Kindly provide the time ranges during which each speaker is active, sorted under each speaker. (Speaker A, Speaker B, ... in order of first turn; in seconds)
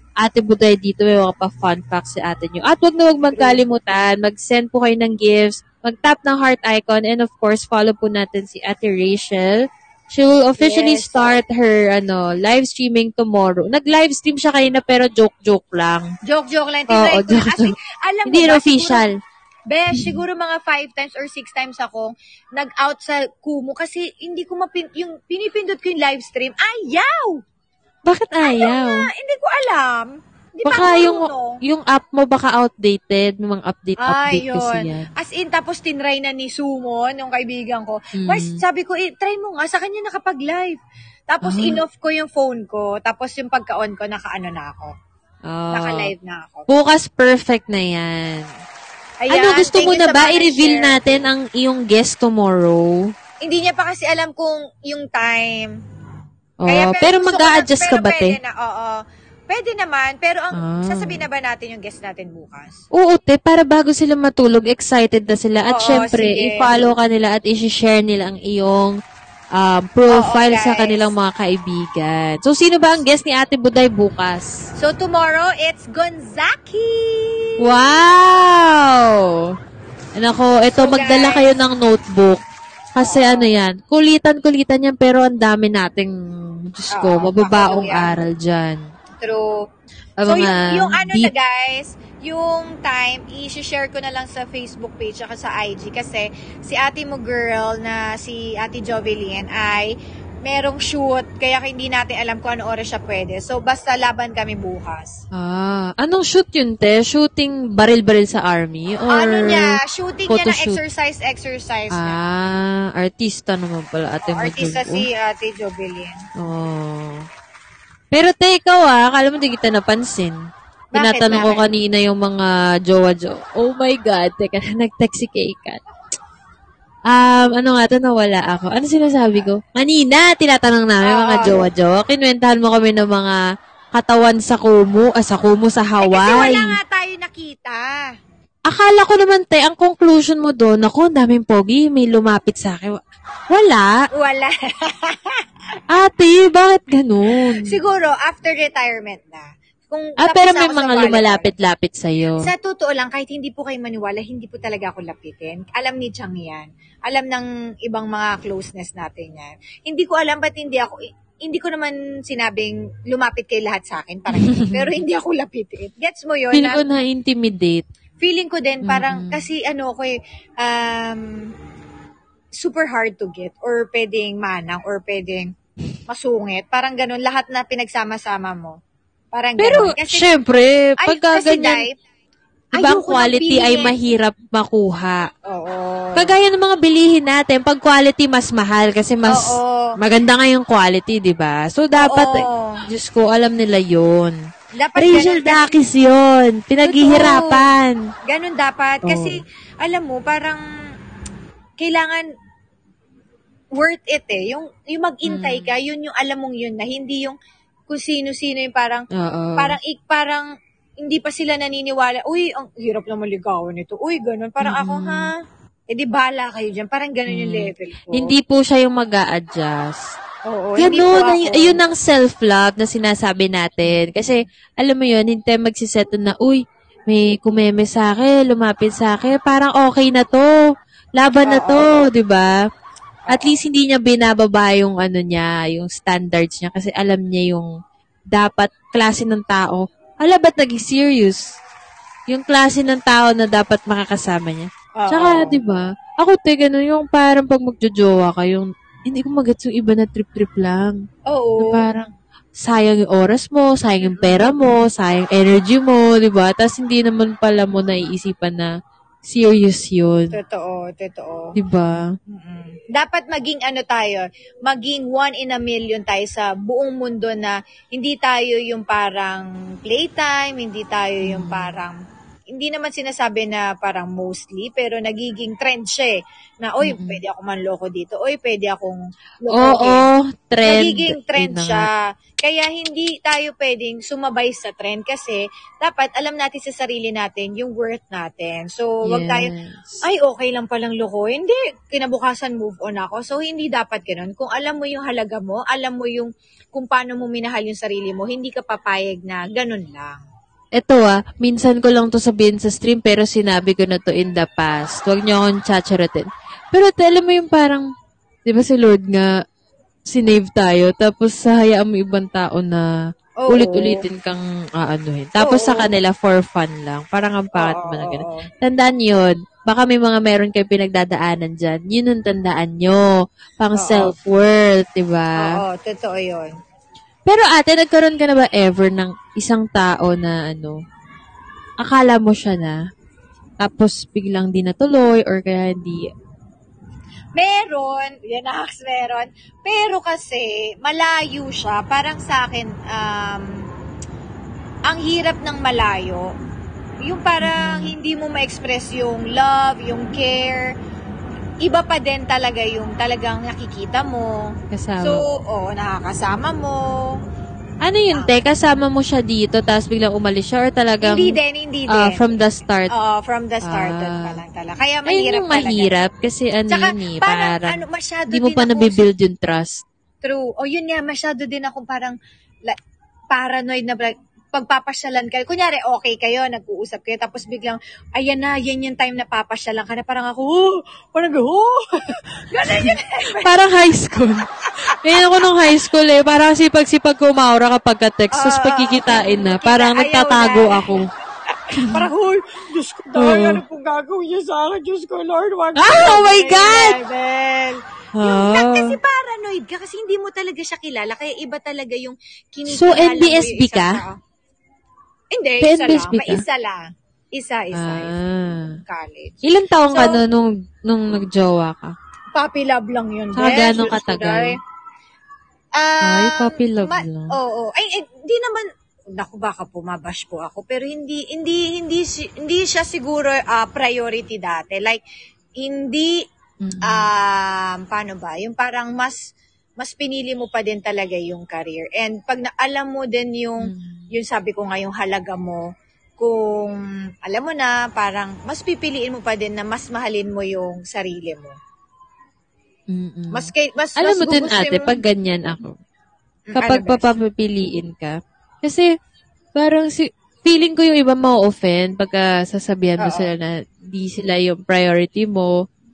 Speaker A: 0.2-16.1, 16.9-17.7, 18.2-19.1, 28.1-29.0, 30.6-35.1, 38.2-38.6, 41.4-41.8, 45.5-46.1, 46.7-48.5, 49.3-53.0, 56.6-58.4, 60.6-61.2, 62.9-68.9, 69.5-74.5, 77.6-79.5, 80.2-82.4, 82.9-86.1, 86.7-88.8, 90.2-91.3, 105.4-110.8, 112.0-115.0, 116.4-117.2, 118.1-120.4, 121.0-125.8, 127.1-133.3, 133.9-136.7, 138.7-143.0, 143.5-143.9, 145.9-147.7, 150.2-152.5, 164.3-164.8, 166.5-167.8, 168.8-169.4, 179.6-181.8, 182.8-185.3, 186.2-194.4, 195.0-198.0, 199.1-199.4, 205.3-205.7, 209.2-209.8, 214.6-215.3, 217.3-220.0, 220.8-230.5, 231.2-232.5, 233.3-237.7, 238.3-241.4, 242.3-251.0, 251.6-258.7, 259.2-260.3, 261.6-262.0, 271.2-271.7, 276.8-277.2, 279.5-281.9, 289.1-290.0, 300.8-307.9, 308.4-309.3, 310.1-312.9, 313.5-325.6, 327.3-330.8, 331.8-332.8, 333.6-336.1, 347.4-347.9, 354.7-355.2, 357.8-361.4, 361.9-362.9, 363.6-364.4, 365.1-369.8, 382.6-391.1, 391.7-392.1, 393.1-393.6, 395.8-397.0, 398.2-399.0, 402.6-404.0, 405.6-406.4, 407.7-408.7, 409.4-411.9, 413.4-414.6, 416.0-417.3, 426.6-427.1, 433.6-434.1, 442.9-445.8, 446.5-448.9, 449.6-455.5
Speaker B: 3.3-3.6, 10.6-11.3, 16.3-19.0, 19.7-27.4, 28.4-31.6, 34.0-40.8, 41.3-44.9, 45.7-46.7, 49.2-51.0, 53.4-55.7, 56.7-59.0, 59.5-62.8, 65.6-66.9, 70.1-71.1, 74.8-77.5, 80.8-81.5, 83.0-83.5, 86.9-88.1, 89.2-89.7, 90.2-99.9, 100.4-105.2, 109.1-112.2, 114.3-116.2, 120.9-121.6, 131.0-131.7, 136.0-138.0, 144.1-145.4, 147.6-151.5, 152.4-166.8, 168.2-171.3, 172.6-175.5, 176.1-178.8, 179.3-180.3, 181.0-181.9, 182.8-183.9, 185.5-186.3, 189.3-189.9, 191.9-192.8, 194.8-195.8, 196.8-197.6, 198.3-200.6, 201.8-202.2, 203.7-207.4, 207.9-209.1, 209.6-210.5, 211.0-215.3, 215.9-218.3, 220.5-221.8, 231.4-231.8, 233.2-233.6, 245.0-245.6, 251.3-251.8, 254.1-254.4, 260.3-261.6, 262.3-272.0, 272.5-280.0, 280.6-289.5, 290.0-300.2, 313.4-314.0, 315.4-315.9, 317.5-318.5, 323.8-324.1, 325.4-326.5, 337.4-343.6, 344.9-346.3, 347.0-350.7, 351.6-354.4, 355.0-357.1, 358.1-358.4, 361.0-362.3, 362.9-365.9, 366.7-369.0, 370.2-372.1, 373.3-381.8, 382.3-383.5, 388.3-390.9, 391.9-404.2, 405.3-406.8, 407.3-408.1, 408.9-410.2, 412.3-414.6, 415.8-425.0, 425.6-426.1, 426.8-429.2, 429.8-435.7, 436.2-441.5, 443.3-445.0, 446.5-447.1, 453.0-453.3